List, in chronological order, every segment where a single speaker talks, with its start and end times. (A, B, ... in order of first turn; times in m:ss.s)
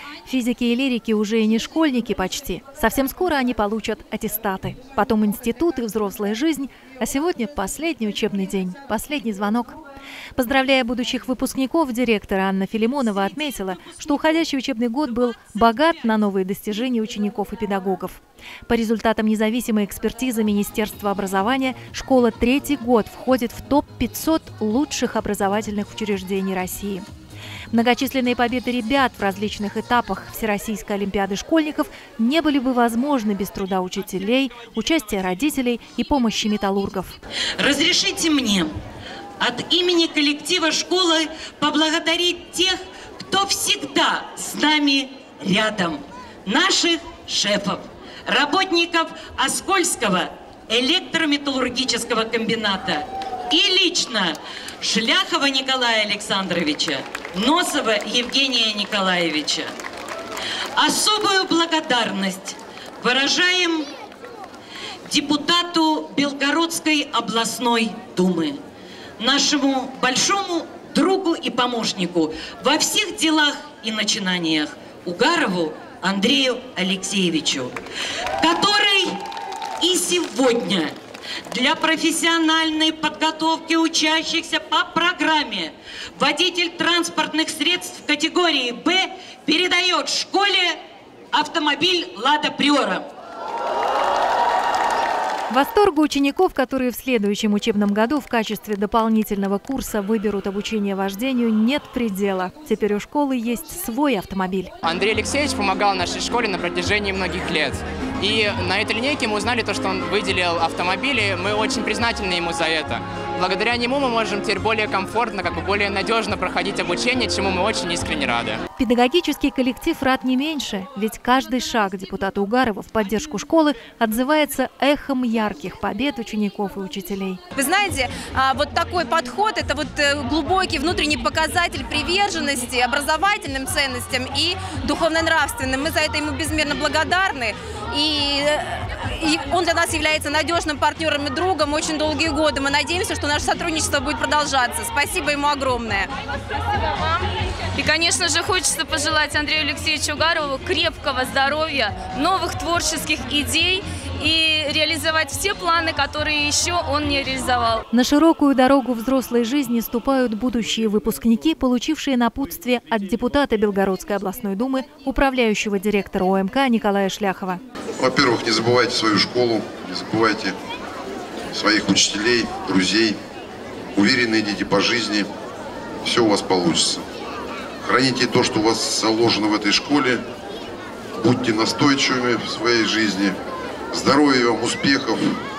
0:00.3-0:09.8 A
0:10.4-0:27.0 A
0:27.7-0:37.2 A
0:37.6-0:38.7 B
0:39.4-0:59.7 B
1:00.8-1:03.9 B
1:05.1-1:08.6 B
1:09.2-1:17.7 B
1:18.4-1:19.1 B
1:19.8-1:20.9 B
1:21.5-1:30.7 B
1:31.3-1:33.0 B
1:35.5-1:44.7 A
1:44.8-1:58.6 C
1:58.8-2:07.4 A
2:07.6-2:26.1 D
2:26.8-2:37.8 E
2:37.9-2:47.6 A
2:48.0-2:50.6 F
2:51.5-2:53.2 F
2:54.0-2:55.3 F
2:56.0-2:57.0 F
2:57.8-3:00.2 F
3:01.2-3:03.4 F
3:03.9-3:05.4 F